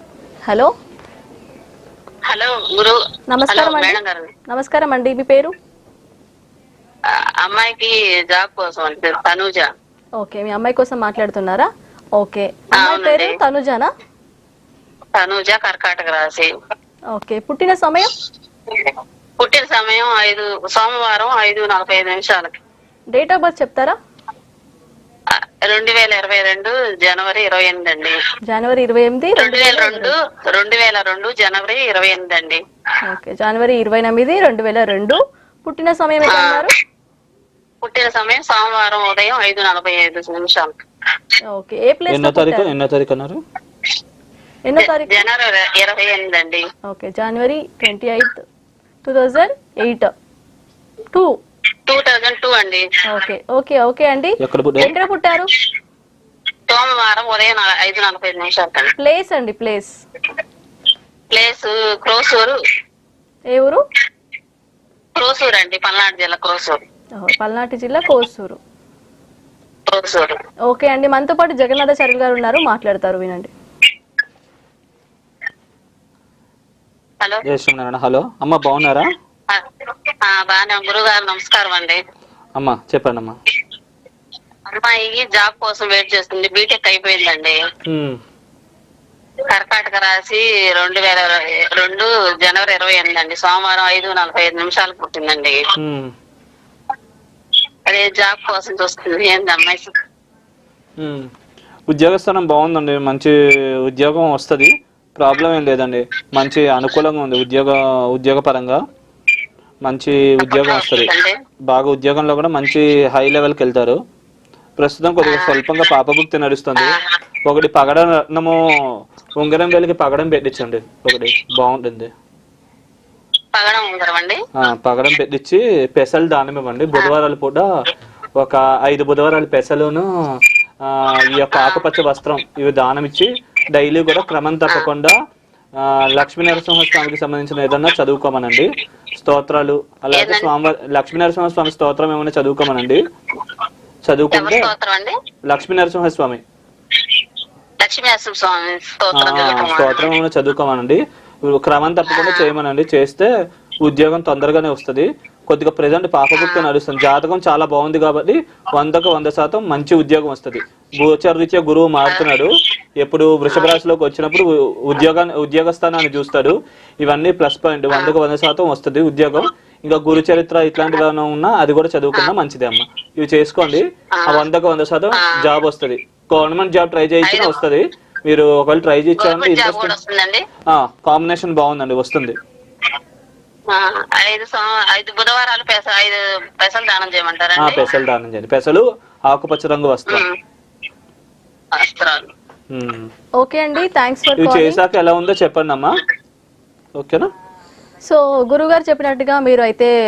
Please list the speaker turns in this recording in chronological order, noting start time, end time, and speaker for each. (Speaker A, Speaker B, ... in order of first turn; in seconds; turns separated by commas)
Speaker A: 0.5-0.7, Speaker B: 2.3-3.0, Speaker A: 3.3-5.5, Speaker B: 3.5-4.3, Speaker B: 7.4-9.7, Speaker A: 10.2-13.9, Speaker B: 12.8-13.4, Speaker B: 15.2-16.5, Speaker A: 17.1-18.1, Speaker B: 18.7-22.6, Speaker A: 23.1-23.9, Speaker B: 25.6-28.2, Speaker A: 28.5-30.1, Speaker B: 29.4-32.6, Speaker A: 33.0-36.7, Speaker B: 36.3-36.7, Speaker B: 37.8-40.7, Speaker A: 41.5-42.7, Speaker C: 42.1-43.4, Speaker A: 44.7-45.2, Speaker B: 44.8-46.6, Speaker A: 46.9-48.4, Speaker A: 49.0-50.1, Speaker B: 51.9-52.9, Speaker A: 53.1-55.5, Speaker C: 54.4-54.9, Speaker B: 56.7-58.9, Speaker A: 59.0-59.9, Speaker B: 61.3-62.5, Speaker A: 63.5-63.8, Speaker B: 65.2-66.8, Speaker A: 67.2-68.6, Speaker B: 69.9-70.4, Speaker A: 70.7-73.5, Speaker C: 77.5-79.1, Speaker B: 80.2-82.0, Speaker C: 82.5-83.4, Speaker B: 84.7-87.6, Speaker C: 87.9-88.2, Speaker B: 89.5-95.6, Speaker C: 95.8-96.1, Speaker B: 97.9-99.9, Speaker C: 101.0-101.3, Speaker C: 101.9-103.3, Speaker C: 103.8-108.8, Speaker C: 109.8-111.1, Speaker B: 110.5-111.3, Speaker C: 111.7-114.0, Speaker C: 114.8-118.6, Speaker B: 115.2-115.6, Speaker C: 119.4-122.1, Speaker B: 123.5-124.4, Speaker C: 124.5-127.7, Speaker C: 128.4-130.1, Speaker C: 130.8-135.2, Speaker B: 131.5-131.8, Speaker C: 135.8-143.1, Speaker B: 140.2-140.5, Speaker C: 144.1-144.7, Speaker B: 144.3-145.1, Speaker C: 145.5-146.4, Speaker B: 147.8-150.1, Speaker C: 149.1-153.3, Speaker B: 152.1-152.5, Speaker C: 153.8-162.5, Speaker B: 156.4-156.7, Speaker C: 163.0-179.9, Speaker B: 163.5-163.8, Speaker B: 174.2-174.4, Speaker B: 177.3-177.6, Speaker B: 179.2-180.4, Speaker C: 180.7-182.3, Speaker B: 183.7-187.9, Speaker C: 187.6-190.2, Speaker B: 191.8-192.3, Speaker C: 192.7-193.1, Speaker A: 193.4-194.8, Speaker C: 194.4-195.9, Speaker C: 197.0-197.3, Speaker A: 198.0-199.9